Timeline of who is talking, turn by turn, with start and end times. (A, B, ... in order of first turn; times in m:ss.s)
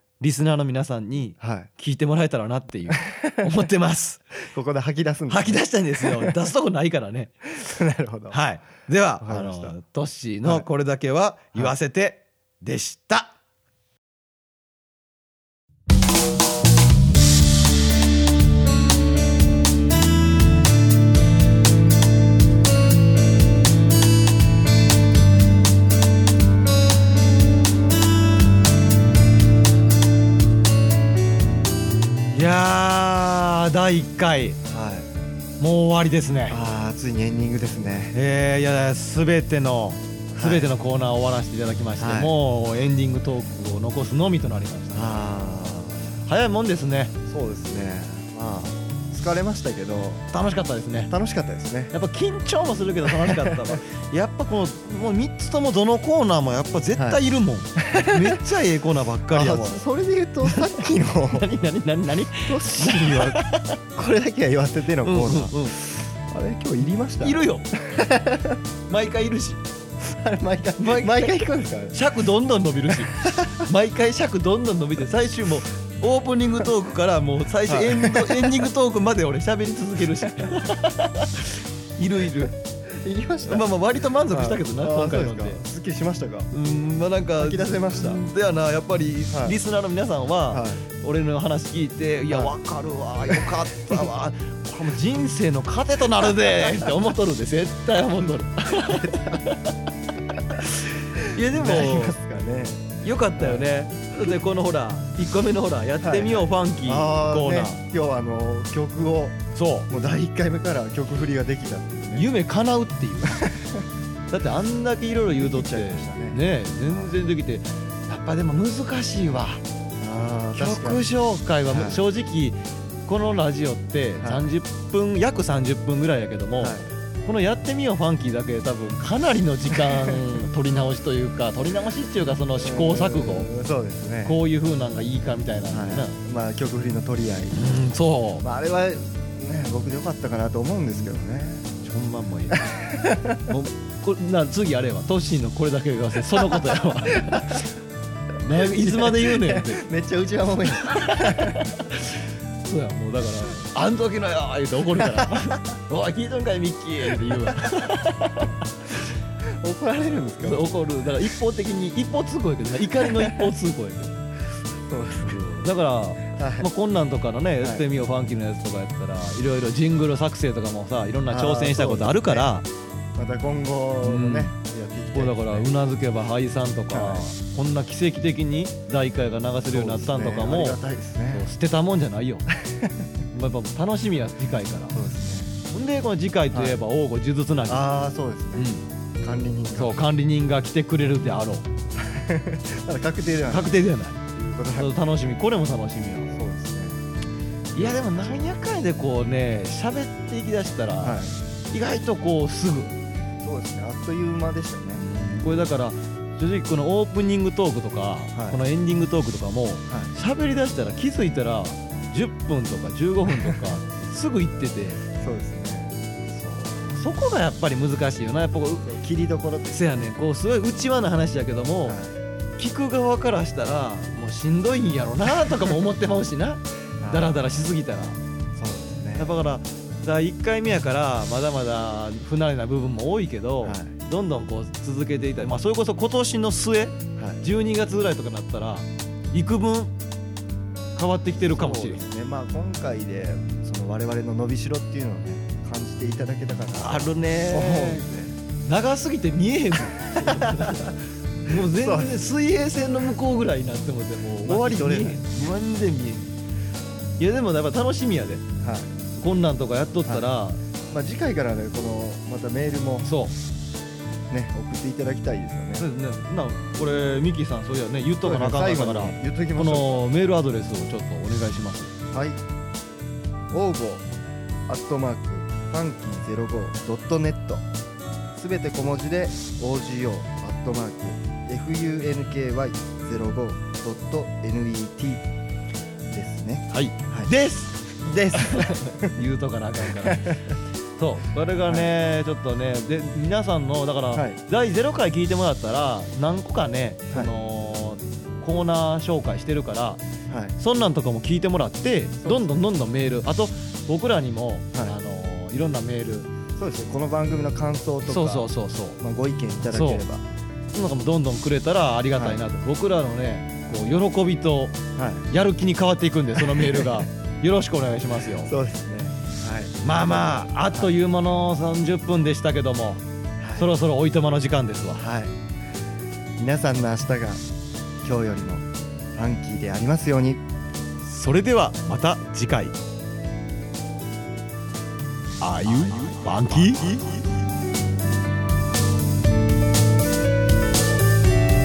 0:00.2-0:04.3 A
0:01.4-0:01.7 B
0:02.9-0:03.6 B
0:04.4-0:06.3 B
0:05.3-0:07.5 A
0:07.6-0:08.4 B
0:08.3-0:13.3 A
0:09.2-0:09.7 B
0:32.3-0:34.6 A
0:34.7-0:35.1 B
0:35.6-0:36.6 A
0:36.5-0:38.1 B
0:38.1-0:45.2 A
0:40.3-0:40.6 B
0:42.0-0:42.3 B
0:44.9-0:46.1 B
0:46.2-0:47.1 A
0:47.3-0:50.2 B
0:50.3-0:51.1 A
0:51.1-0:51.9 B
0:51.9-0:59.8 A
0:53.0-0:53.8 B
0:56.9-0:57.2 B
0:57.8-0:58.4 B
0:59.3-1:01.4 B
1:01.3-1:03.8 A
1:02.4-1:08.6 B
1:05.0-1:05.8 A
1:07.2-1:07.7 A
1:08.9-1:09.6 A
1:10.0-1:12.0 B
1:10.8-1:22.5 A
1:13.1-1:13.7 B
1:17.7-1:18.7 B
1:22.9-1:23.7 B
1:23.5-1:25.6 A
1:24.3-1:26.5 B
1:26.5-1:39.8 A
1:27.4-1:28.2 B
1:29.3-1:29.6 B
1:30.5-1:30.8 B
1:33.3-1:34.1 B
1:36.2-1:36.9 B
1:38.8-1:39.4 B
1:40.6-1:42.2 A
1:41.5-1:43.7 B
1:43.0-1:47.8 A
1:46.0-1:52.2 B
1:49.5-1:49.9 A
1:52.1-1:53.4 A
1:53.3-1:53.8 B
1:54.3-1:59.6 A
1:55.3-1:57.1 B
2:00.0-2:01.0 B
2:00.5-2:13.5 A
2:01.7-2:02.0 B
2:04.2-2:04.5 B
2:06.6-2:06.9 B
2:09.7-2:10.2 B
2:12.6-2:14.4 B
2:14.2-2:16.2 A
2:15.7-2:17.6 B
2:17.5-2:18.4 A
2:18.4-2:21.7 B
2:21.8-2:22.7 A
2:22.5-2:23.5 B
2:23.5-2:27.7 A
2:26.4-2:27.6 B
2:28.4-2:29.8 A
2:28.5-2:31.7 B
2:30.8-2:38.6 A
2:35.0-2:35.6 B
2:37.4-2:37.7 B
2:39.5-2:40.6 B
2:40.4-2:44.2 A
2:43.0-2:43.5 B
2:44.9-2:45.4 B
2:45.2-2:52.7 A
2:46.3-2:46.7 B
2:51.3-2:52.4 B
2:53.2-2:55.7 B
2:54.0-2:54.5 A
2:55.1-3:00.8 A
2:56.9-2:57.3 B
2:59.7-3:01.4 B
3:01.3-3:02.5 A
3:02.6-3:03.1 B
3:03.3-3:05.0 A
3:04.9-3:05.5 B
3:05.7-3:07.9 A
3:06.5-3:06.8 B
3:07.7-3:10.0 B
3:08.5-3:08.9 A
3:09.7-3:11.7 A
3:12.0-3:13.8 B
3:13.5-3:14.2 A
3:14.3-3:14.9 B
3:14.8-3:16.4 A
3:16.3-3:17.0 B
3:17.7-3:18.6 B
3:17.7-3:23.0 A
3:21.0-3:21.3 B
3:23.4-3:25.0 B
3:24.9-3:35.0 A
3:28.3-3:28.6 B
3:33.3-3:33.6 B
3:35.1-3:36.0 B
3:36.3-3:39.0 A
3:38.8-3:40.0 B
3:39.7-3:42.0 A
3:41.8-3:42.2 B
3:42.6-3:48.2 A
3:47.0-3:47.4 B
3:48.5-3:49.3 B
3:49.2-3:59.9 A
3:53.6-3:53.9 B
3:57.2-3:57.4 B
4:01.0-4:02.0 A
4:01.4-4:08.3 B
4:06.7-4:16.3 A
4:10.0-4:11.0 B
4:11.5-4:12.2 B
4:14.4-4:15.2 B
4:17.2-4:18.4 A
4:18.6-4:18.9 B
4:19.2-4:20.6 A
4:20.9-4:23.1 B
4:23.0-4:23.4 A
4:24.3-4:25.9 B
4:25.8-4:31.9 A
4:28.2-4:30.1 B
4:32.1-4:32.4 B
4:33.5-4:34.1 B
4:34.7-4:37.6 B
4:38.3-4:45.2 B
4:46.1-4:47.3 B
4:46.7-4:50.4 A
4:48.0-4:49.1 B
4:49.8-4:50.6 B
4:51.0-5:00.0 A
4:54.1-4:54.4 B
5:00.3-5:00.5 B
5:00.6-5:06.3 A
5:02.2-5:02.7 B
5:06.5-5:10.2 B
5:08.1-5:09.0 A
5:09.7-5:10.0 A
5:10.7-5:18.5 A
5:12.1-5:12.4 B
5:15.0-5:15.3 B
5:16.4-5:17.1 B
5:18.4-5:20.9 B
5:19.8-5:23.0 A
5:23.4-5:23.7 B
5:23.6-5:25.0 A
5:25.0-5:25.3 B
5:26.4-5:27.4 B
5:28.0-5:30.4 B
5:31.0-5:32.8 A
5:35.4-5:37.2 A